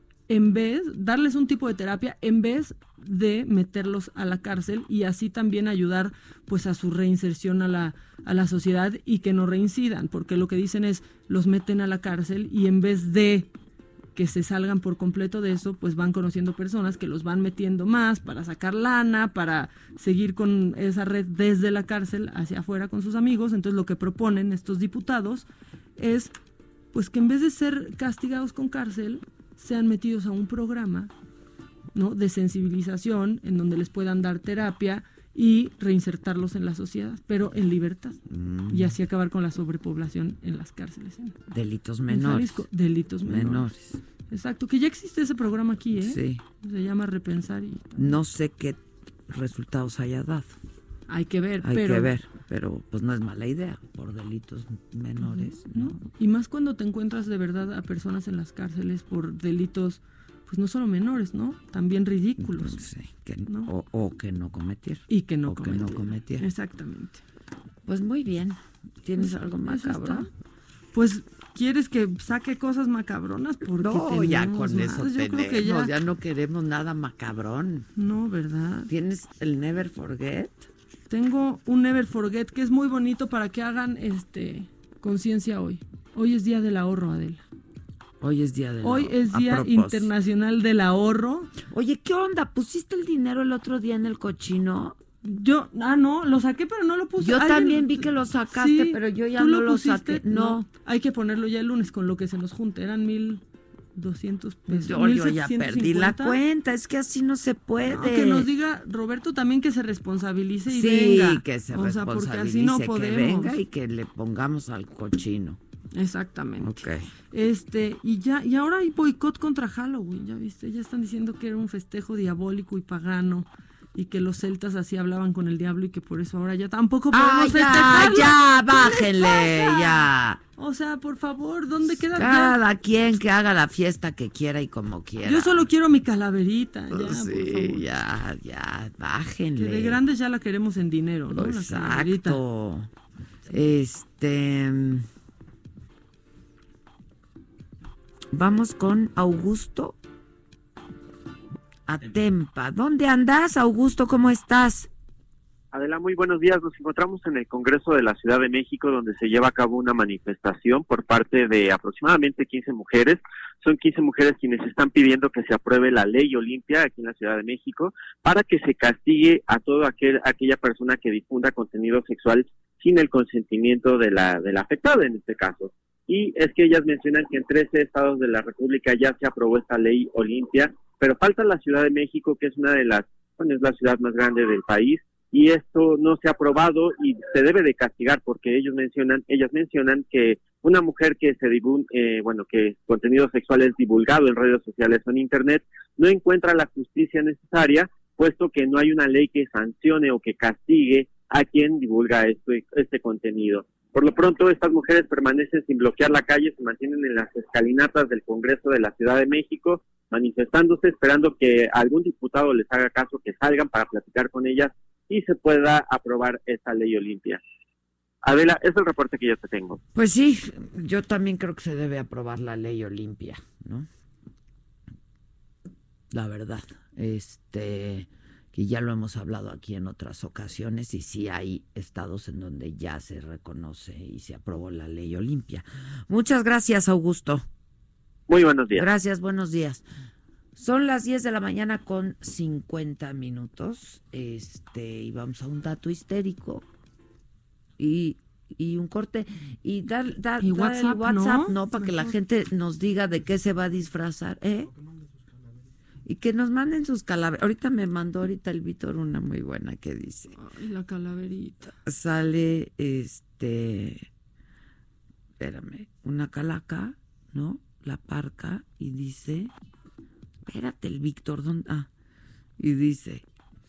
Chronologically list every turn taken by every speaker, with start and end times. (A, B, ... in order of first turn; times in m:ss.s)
0:00.3-0:13.5 A
0:14.2-0:25.5 A
0:26.0-0:26.3 A
0:26.9-0:31.1 A
0:31.9-0:41.4 A
0:38.3-0:39.0 B
0:41.5-0:42.6 B
0:42.1-0:43.7 A
0:43.2-0:44.0 B
0:44.3-0:48.2 A
0:46.0-0:46.4 B
0:48.0-0:50.5 B
0:51.1-0:52.1 A
0:51.6-0:56.1 B
0:55.2-1:02.9 A
1:02.4-1:06.5 B
1:05.1-1:07.2 A
1:07.9-1:10.3 B
1:09.2-1:10.3 A
1:10.9-1:15.9 A
1:13.8-1:17.9 B
1:18.0-1:18.9 A
1:18.9-1:20.6 B
1:21.1-1:27.4 A
1:28.2-1:30.1 B
1:28.8-1:31.5 A
1:31.7-1:35.0 B
1:35.2-1:43.4 A
1:37.2-1:40.7 B
1:44.0-1:46.4 A
1:44.7-1:48.5 B
1:47.9-1:53.6 A
1:50.7-1:55.6 B
1:55.9-2:10.1 A
1:56.6-1:57.0 B
2:07.1-2:10.4 B
2:10.6-2:12.6 A
2:11.9-2:15.7 B
2:15.2-2:17.8 A
2:16.9-2:20.0 B
2:19.6-2:22.4 A
2:21.3-2:22.9 B
2:23.5-2:25.1 B
2:28.3-2:30.0 B
2:31.9-2:34.9 B
2:35.7-3:37.4 C
3:38.2-3:39.8 C
3:39.9-3:43.9 B
3:46.1-3:57.4 B
3:58.3-3:58.9 C
3:58.8-3:59.8 B
4:00.6-4:06.6 B
4:07.8-4:14.7 B
4:10.4-4:12.2 A
4:16.0-4:20.3 B
4:20.4-4:21.7 A
4:21.8-4:24.1 B
4:25.4-4:29.5 B
4:30.5-4:31.9 B
4:32.6-4:33.2 B